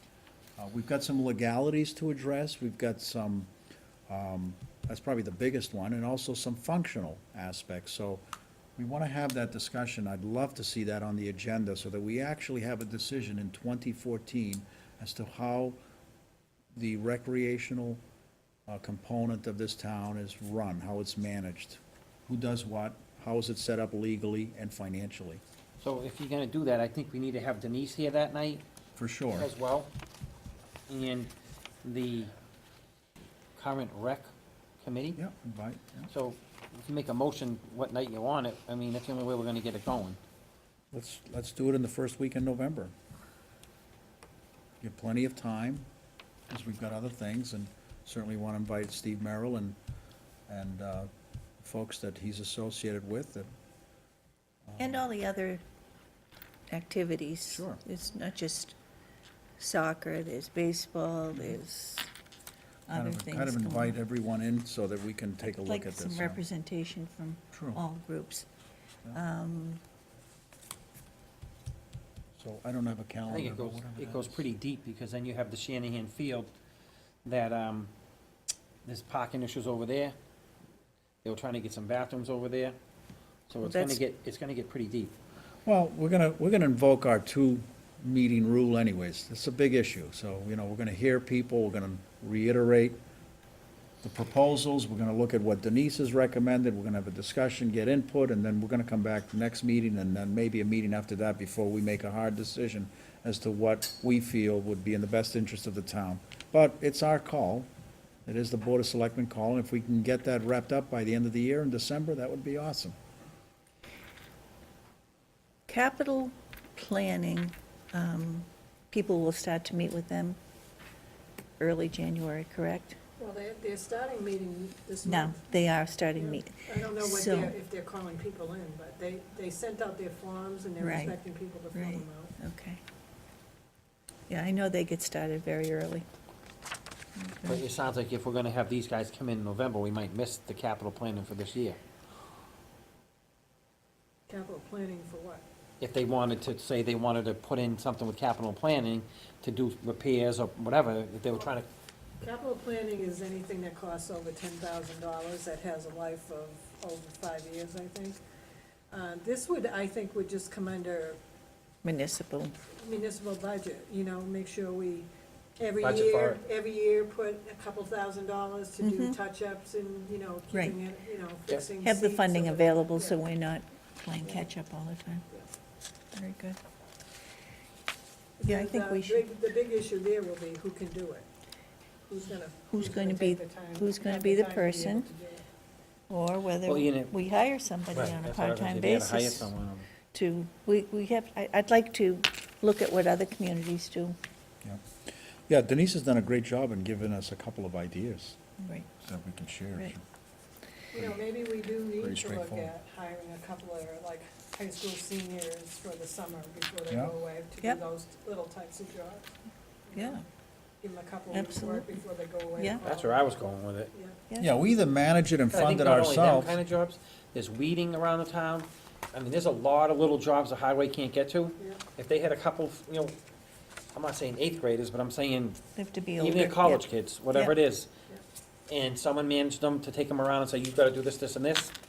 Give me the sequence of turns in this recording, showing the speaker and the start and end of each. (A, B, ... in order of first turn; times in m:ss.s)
0:00.6-0:03.5 A
0:04.1-0:08.2 A
0:08.8-0:15.8 A
0:16.7-0:18.0 A
0:18.7-0:25.4 A
0:25.8-0:28.6 B
0:29.0-0:29.5 A
0:29.4-0:29.9 B
0:30.9-0:31.3 B
0:31.8-0:32.3 B
0:33.6-0:34.3 B
0:34.8-0:35.2 B
0:35.2-0:36.1 A
0:36.1-0:40.2 B
0:40.9-0:42.9 A
0:44.8-0:45.9 A
0:46.5-0:49.8 A
0:50.5-0:53.5 A
0:54.7-0:55.0 A
0:54.8-0:55.6 C
0:56.7-0:58.8 C
0:57.5-0:57.8 A
0:59.6-1:02.1 C
1:02.9-1:04.0 C
1:02.9-1:06.4 A
1:05.6-1:08.5 C
1:07.5-1:07.8 A
1:09.1-1:09.8 C
1:12.4-1:14.5 A
1:13.3-1:16.5 B
1:17.2-1:17.9 B
1:18.8-1:20.2 B
1:21.2-1:22.8 B
1:23.5-1:25.2 B
1:23.6-1:24.0 C
1:25.7-1:33.0 A
1:34.0-1:47.7 A
1:48.3-1:53.0 A
1:55.7-2:00.4 C
2:01.6-2:03.0 C
2:03.2-2:05.4 D
2:05.0-2:07.5 C
2:06.2-2:12.3 D
2:10.8-2:11.2 C
2:11.7-2:12.8 C
2:14.3-2:16.1 C
2:17.2-2:17.6 C
2:17.4-2:21.8 B
2:24.3-2:25.4 D
2:25.8-2:31.7 B
2:32.2-2:38.2 D
2:38.9-2:41.2 D
2:41.8-2:42.6 C
2:42.7-2:45.1 D
2:45.6-2:53.2 D
2:45.8-2:46.4 B
2:48.8-2:49.2 C
2:51.8-2:55.3 C
2:56.1-2:56.6 C
2:58.4-3:01.3 D
2:58.5-2:59.2 C
3:02.1-3:05.4 D
3:02.7-3:05.1 C
3:06.1-3:09.5 C
3:06.6-3:07.1 B
3:07.9-3:09.9 B
3:10.1-3:14.2 C
3:15.5-3:18.4 A
3:18.6-3:18.9 C
3:19.0-3:20.0 A
3:20.9-3:29.3 D
3:22.0-3:22.7 A
3:29.9-3:30.2 D
3:30.0-3:30.2 C
3:30.8-3:33.3 D
3:31.3-3:31.9 C
3:32.8-3:33.9 B
3:33.9-3:34.2 D
3:34.4-3:36.6 A
3:35.5-3:43.2 B
3:43.9-3:45.6 B
3:45.8-3:46.8 C
3:46.2-3:47.9 B
3:48.7-3:51.7 B